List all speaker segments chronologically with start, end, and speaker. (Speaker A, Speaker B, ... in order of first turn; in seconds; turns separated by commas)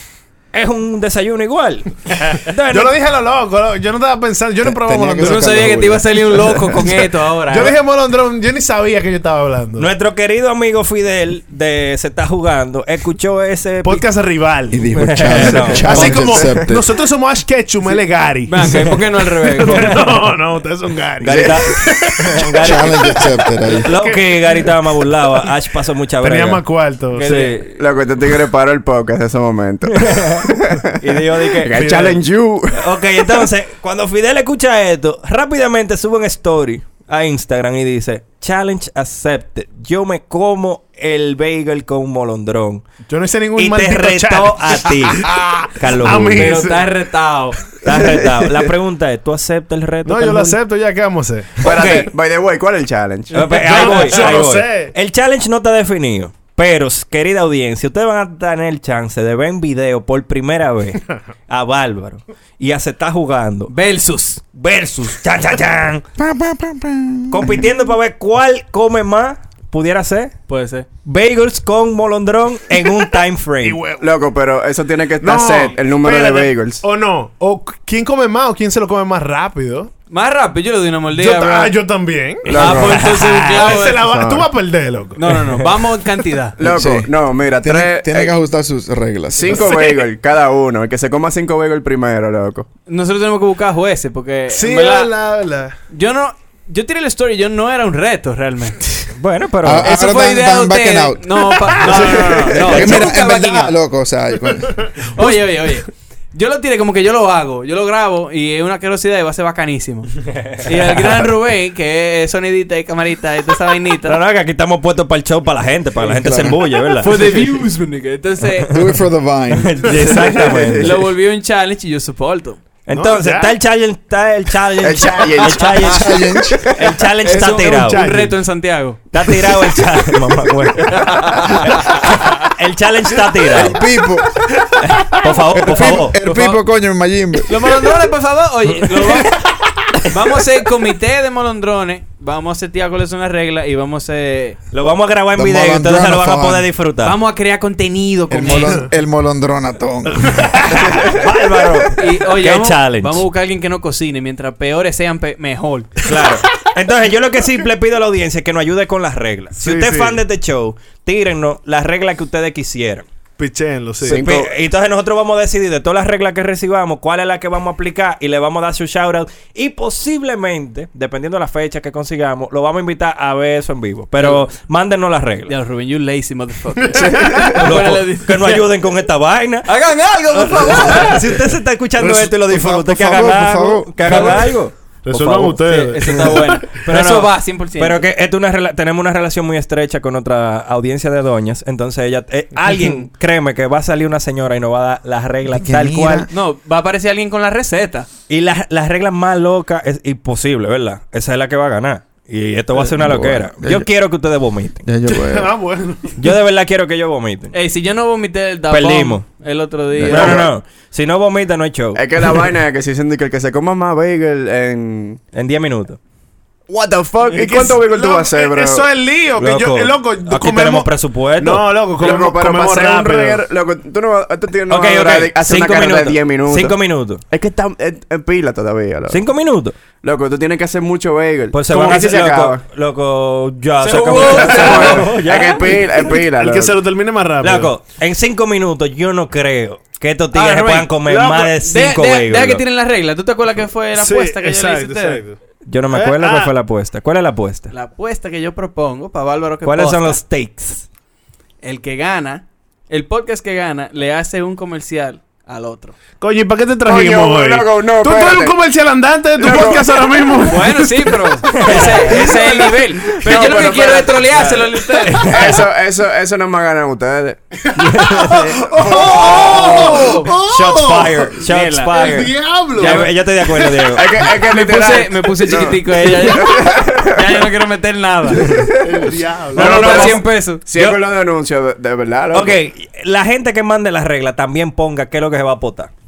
Speaker A: 0.5-3.0, Speaker B: 2.7-5.9, Speaker C: 4.6-6.9, Speaker D: 5.2-7.8, Speaker B: 7.5-9.9, Speaker A: 9.8-14.1, Speaker B: 13.8-15.0, Speaker C: 14.7-16.9, Speaker A: 14.9-16.1, Speaker E: 15.3-16.7, Speaker B: 15.8-18.6, Speaker D: 18.5-20.0, Speaker A: 18.7-19.0, Speaker B: 19.4-22.4, Speaker A: 19.6-20.2, Speaker A: 21.2-23.2, Speaker E: 21.2-21.7, Speaker C: 22.6-23.9, Speaker B: 23.7-24.7, Speaker A: 23.8-26.6, Speaker B: 26.2-27.3, Speaker D: 27.1-27.7, Speaker A: 27.2-27.6, Speaker E: 27.2-33.5, Speaker A: 30.0-30.5, Speaker A: 31.0-31.8, Speaker B: 31.7-32.2, Speaker A: 32.7-42.8, Speaker B: 43.1-46.9, Speaker A: 43.6-46.7, Speaker D: 46.3-47.6, Speaker A: 47.8-50.6, Speaker E: 47.9-48.6, Speaker B: 50.0-51.7, Speaker A: 51.6-52.1, Speaker E: 51.6-54.4, Speaker D: 53.3-53.8, Speaker A: 53.3-63.7, Speaker B: 53.5-54.9, Speaker D: 63.7-64.5, Speaker A: 64.5-66.0, Speaker C: 66.2-67.8, Speaker A: 67.3-70.3, Speaker D: 70.5-70.9, Speaker A: 71.0-73.8, Speaker B: 73.6-74.0, Speaker E: 74.0-76.8, Speaker B: 75.2-79.9, Speaker D: 80.1-81.8, Speaker B: 81.1-85.4, Speaker E: 82.5-83.1, Speaker D: 82.5-84.0, Speaker E: 84.0-84.5, Speaker D: 85.2-86.6, Speaker E: 86.6-88.3, Speaker C: 86.6-89.9, Speaker E: 89.3-92.7, Speaker D: 92.9-95.1, Speaker B: 94.5-95.7, Speaker D: 95.9-99.1, Speaker A: 99.2-99.9, Speaker C: 99.6-105.4, Speaker D: 99.8-103.8, Speaker B: 101.8-103.1, Speaker E: 102.5-103.0, Speaker D: 105.2-110.1, Speaker D: 110.6-114.2, Speaker A: 114.0-117.3, Speaker C: 116.0-116.6, Speaker D: 117.0-118.8, Speaker C: 118.7-120.0, Speaker A: 119.5-121.0, Speaker E: 119.9-121.0, Speaker D: 120.8-122.8, Speaker A: 122.9-128.1, Speaker B: 122.9-123.6, Speaker E: 124.8-127.0, Speaker C: 125.8-126.7, Speaker C: 127.2-127.6, Speaker B: 127.3-128.4, Speaker D: 127.9-129.0, Speaker A: 129.1-133.8, Speaker D: 130.9-131.5, Speaker C: 133.4-137.8, Speaker A: 134.8-136.2, Speaker D: 136.2-136.6, Speaker D: 137.5-139.4, Speaker A: 138.8-139.2, Speaker D: 140.1-144.6, Speaker A: 144.7-147.2, Speaker C: 145.3-146.7, Speaker D: 147.0-148.9, Speaker C: 148.3-150.8, Speaker B: 148.5-148.9, Speaker B: 150.1-151.9, Speaker A: 150.7-153.3, Speaker D: 152.0-155.9, Speaker A: 156.1-163.1, Speaker B: 159.6-160.2, Speaker B: 163.4-164.2, Speaker A: 164.0-175.5, Speaker E: 164.1-164.5, Speaker D: 174.2-174.5, Speaker D: 175.5-178.7, Speaker B: 176.8-177.5, Speaker E: 177.0-177.5, Speaker A: 177.6-179.7, Speaker D: 179.7-181.4, Speaker A: 180.3-196.3, Speaker C: 182.0-184.5, Speaker D: 184.0-184.5, Speaker B: 185.1-186.9, Speaker D: 185.7-188.1, Speaker C: 195.5-196.3, Speaker D: 196.3-198.1, Speaker A: 198.3-204.8, Speaker C: 202.8-203.9, Speaker C: 204.8-205.5, Speaker B: 205.1-206.2, Speaker A: 206.2-207.6, Speaker D: 207.5-210.5, Speaker A: 208.7-209.3, Speaker C: 210.0-210.4, Speaker A: 210.0-212.0, Speaker B: 210.1-210.4, Speaker E: 211.9-215.2, Speaker A: 215.3-216.0, Speaker E: 216.7-218.9, Speaker B: 217.3-223.4, Speaker A: 219.4-221.7, Speaker E: 222.0-229.2, Speaker A: 224.7-227.2, Speaker A: 229.1-229.8, Speaker E: 230.0-232.6, Speaker A: 231.5-236.1, Speaker D: 233.8-235.1, Speaker E: 233.9-236.8, Speaker B: 235.7-237.7, Speaker A: 237.4-242.6, Speaker D: 240.3-245.2, Speaker B: 243.9-245.4, Speaker A: 245.7-247.7, Speaker B: 245.9-246.5, Speaker D: 247.7-250.2, Speaker A: 249.7-250.9, Speaker D: 251.6-256.0, Speaker B: 256.1-263.8, Speaker E: 256.9-258.6, Speaker E: 259.4-260.3, Speaker D: 260.5-265.3, Speaker A: 261.5-262.5, Speaker A: 263.1-263.4, Speaker E: 263.1-270.3, Speaker B: 264.4-265.1, Speaker A: 265.0-265.7, Speaker A: 267.8-268.6, Speaker B: 268.5-274.0, Speaker A: 269.2-269.7, Speaker D: 269.7-270.3, Speaker A: 270.3-274.3, Speaker D: 271.4-272.1, Speaker D: 272.8-273.1, Speaker E: 273.9-277.5, Speaker D: 274.4-278.5, Speaker E: 278.3-282.6, Speaker B: 278.8-280.3, Speaker A: 279.6-281.1, Speaker D: 279.6-280.7, Speaker A: 282.3-285.9